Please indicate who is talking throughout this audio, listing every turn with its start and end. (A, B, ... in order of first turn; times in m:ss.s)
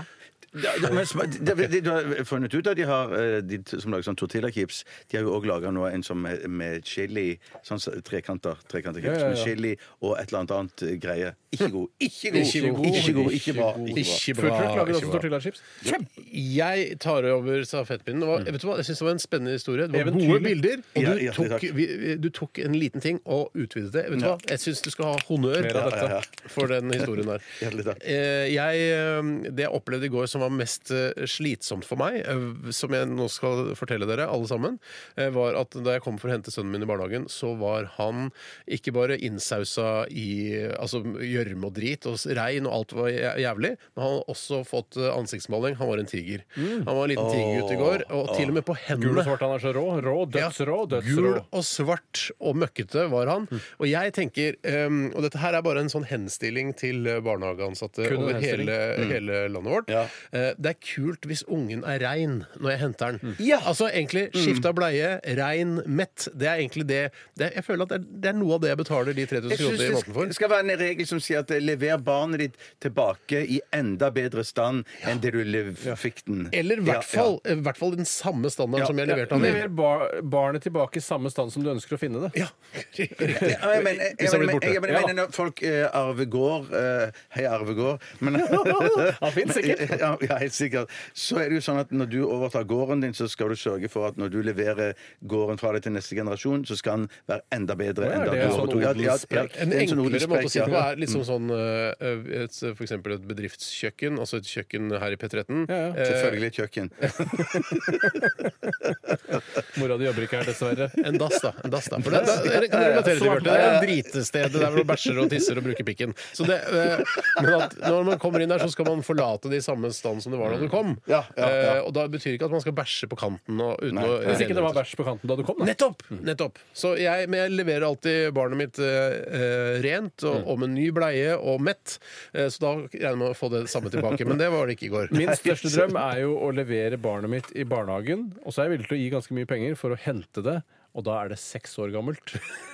0:00.5-0:14.2 A
0:09.0-0:09.5 B
0:12.3-0:15.3 C
0:12.4-0:16.0 B
0:15.8-0:49.4 C
0:19.9-0:20.6 B
0:20.9-0:21.7 A
0:24.1-0:24.4 A
0:25.6-0:26.2 B
0:25.6-0:26.4 A
0:27.6-0:28.0 A
0:46.6-0:46.9 B
0:47.1-0:48.6 A
0:48.9-0:51.4 B
0:50.3-1:10.3 C
0:58.0-0:58.7 B
1:03.4-1:03.7 A
1:04.3-1:04.7 A
1:09.5-1:17.4 A
1:16.5-1:19.7 C
1:18.8-1:19.6 A
1:19.0-1:22.4 B
1:22.3-1:25.1 C
1:23.2-1:23.6 B
1:23.3-1:41.2 A
1:28.3-1:30.0 B
1:38.0-1:39.5 B
1:38.3-1:46.4 C
1:45.7-1:46.0 B
1:46.0-1:48.1 A
1:47.4-1:48.8 B
1:49.6-1:51.0 B
1:51.0-2:04.8 C
1:52.0-1:54.0 A
1:52.1-1:53.9 B
1:57.0-1:57.6 A
2:00.5-2:01.8 A
2:03.9-2:04.4 A
2:04.2-2:05.7 B
2:05.6-2:15.2 C
2:15.1-2:22.4 B
2:15.2-2:15.9 A